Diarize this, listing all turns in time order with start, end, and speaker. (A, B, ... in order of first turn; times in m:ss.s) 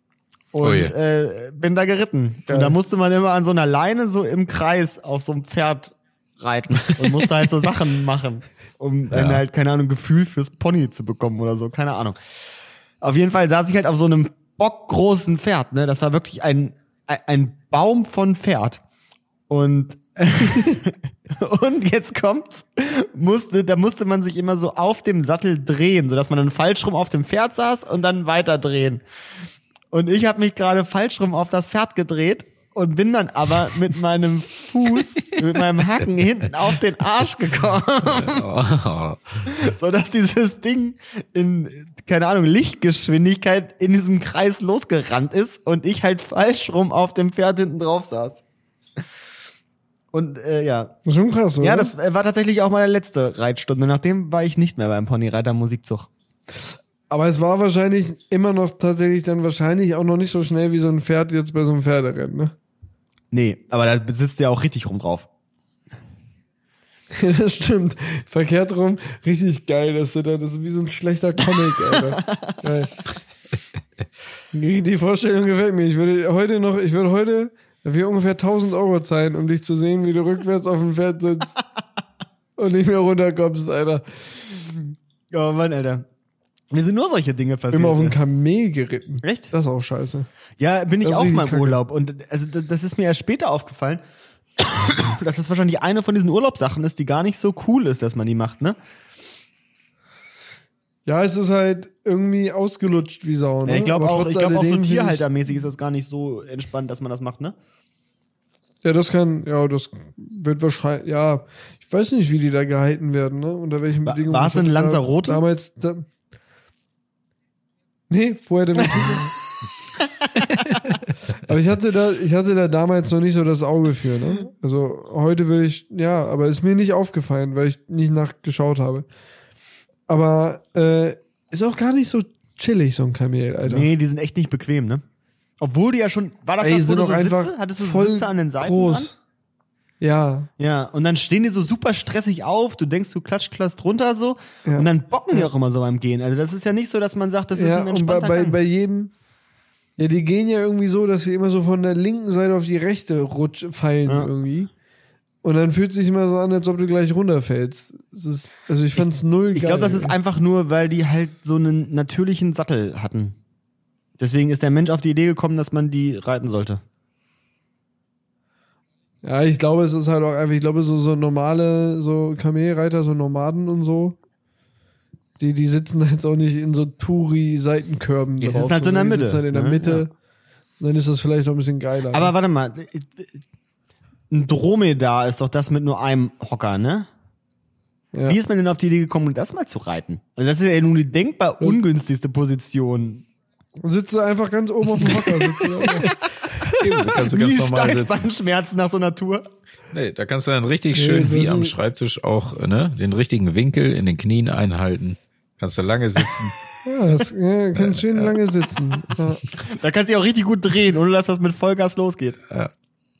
0:00.5-0:12.2 A
0:00.6-0:00.9 B
0:02.5-0:02.8 C
0:09.1-0:09.4 B
0:13.0-0:18.8 A
0:19.5-0:29.0 A
0:29.9-0:38.4 A
0:38.0-0:39.5 B
0:39.4-0:48.4 A
0:50.1-0:50.9 A
0:51.0-0:51.9 C
0:51.6-0:56.1 A
0:57.1-1:02.5 C
1:03.3-1:05.3 A
1:07.1-1:12.9 C
1:11.8-1:12.6 A
1:14.5-1:21.6 C
1:22.6-1:24.0 C
1:25.3-1:26.0 A
1:26.7-1:28.2 A
1:27.7-1:30.3 C
1:29.2-1:29.5 A
1:30.6-1:34.0 A
1:31.0-1:31.8 C
1:34.6-1:38.8 A
1:41.0-1:45.2 C
1:43.6-1:47.5 A
1:48.8-1:56.0 C
1:54.0-1:55.4 A
1:58.1-1:59.3 C
2:01.4-2:09.0 C
2:10.1-2:13.9 C
2:13.6-2:15.0 A
2:15.6-2:19.1 A
2:16.6-2:19.2 C
2:20.0-2:20.5 C
2:20.6-2:28.6 A
2:24.6-2:25.4 C
2:27.5-2:29.1 C
2:30.0-2:34.7 C
2:35.4-2:40.1 C
2:39.5-2:43.4 A
2:44.2-2:46.8 A
2:49.2-2:54.2 C
2:55.4-3:00.1 C
2:58.4-3:00.0 A
3:00.8-3:02.3 C
3:02.1-3:03.3 A
3:04.3-3:07.1 A
3:08.2-3:13.2 A
3:13.8-3:16.8 C
3:15.0-3:15.8 B
3:16.6-3:19.4 A
3:16.8-3:18.3 B
3:19.9-3:26.5 B
3:20.9-3:21.7 C
3:26.8-3:29.4 C
3:27.7-3:28.3 B
3:29.6-3:32.4 A